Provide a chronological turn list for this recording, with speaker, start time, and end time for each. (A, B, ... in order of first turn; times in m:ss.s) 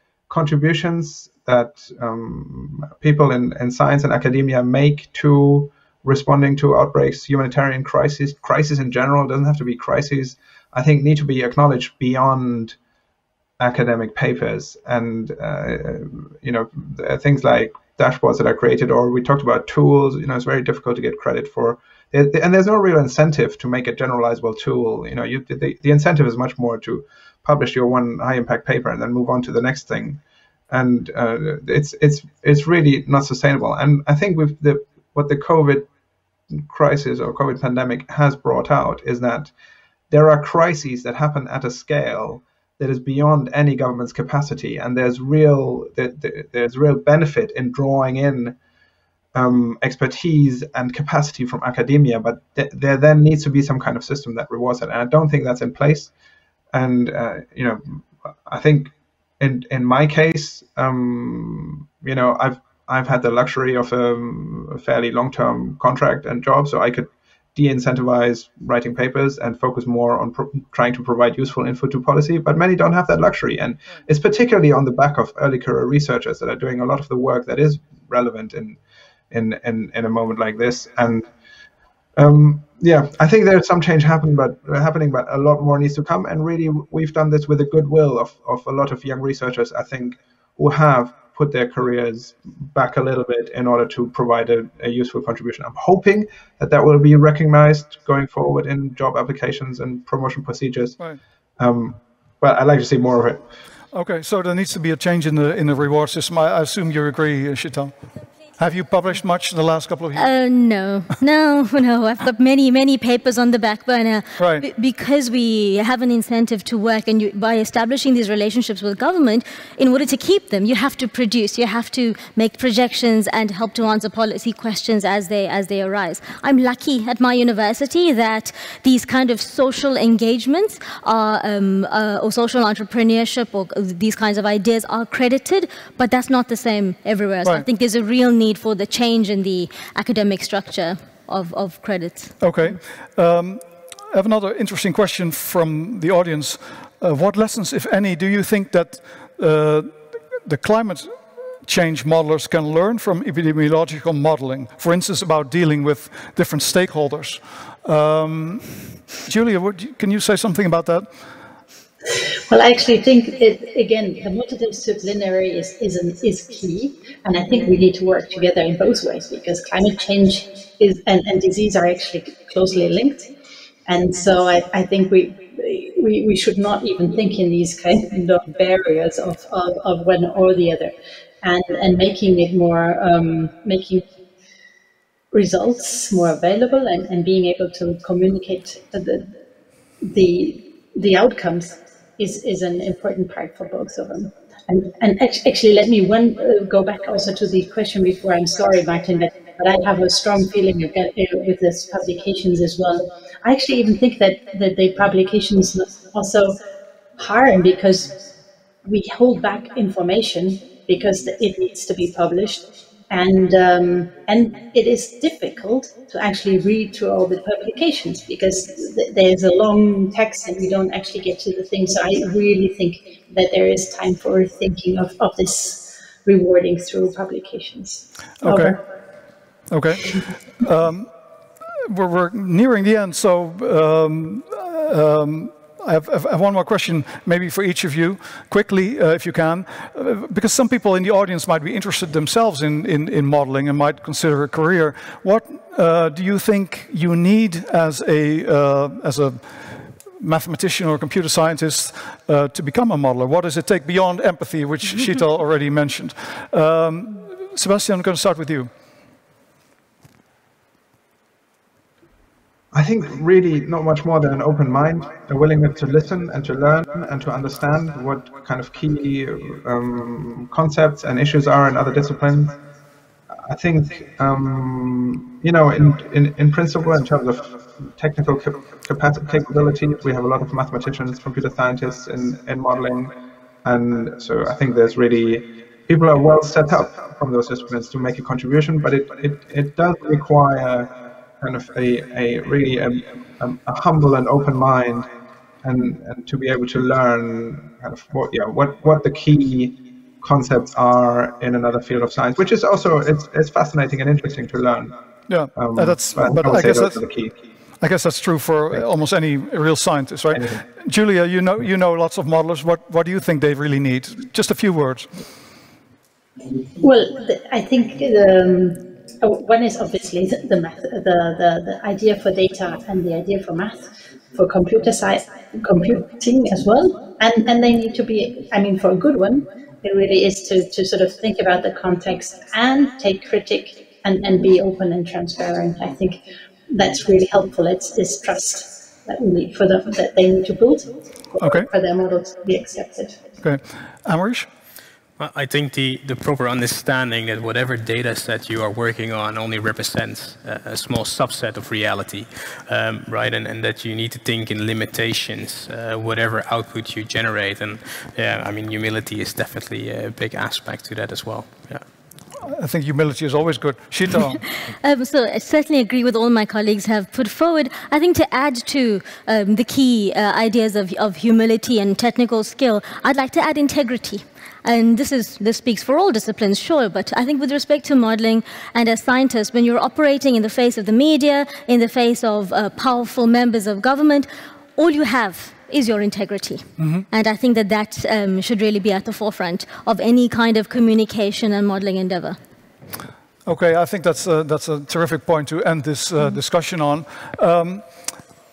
0:00.3-0:12.8 A
0:13.6-0:35.9 A
0:36.5-0:39.5 A
0:40.1-0:48.6 A
0:49.3-0:56.1 A
0:56.7-1:18.8 A
1:19.3-1:21.3 A
1:22.2-1:41.0 A
1:41.6-1:43.5 A
1:43.9-1:47.9 B
1:48.6-1:50.3 B
1:50.1-2:22.4 C
1:54.4-1:54.6 B
2:22.4-2:41.1 B
2:42.5-2:53.3 D
2:53.8-3:04.1 D
3:05.3-3:09.3 D
3:10.0-3:26.6 D
3:27.2-3:28.2 D
3:28.8-3:48.8 D
3:48.4-3:48.8 B
3:49.7-3:51.1 B
3:51.8-4:18.7 B
4:22.7-4:32.6 A
4:33.4-4:55.1 A
4:55.6-5:05.0 A
5:05.3-5:07.0 B
5:05.5-5:07.4 A
5:07.8-5:15.1 B
5:16.8-5:43.2 D
5:41.4-5:41.7 B
5:43.4-5:44.5 B
5:45.2-6:01.8 E
6:02.4-6:04.4 B
6:04.6-6:32.4 C
6:26.8-6:27.1 B
6:33.4-6:37.9 B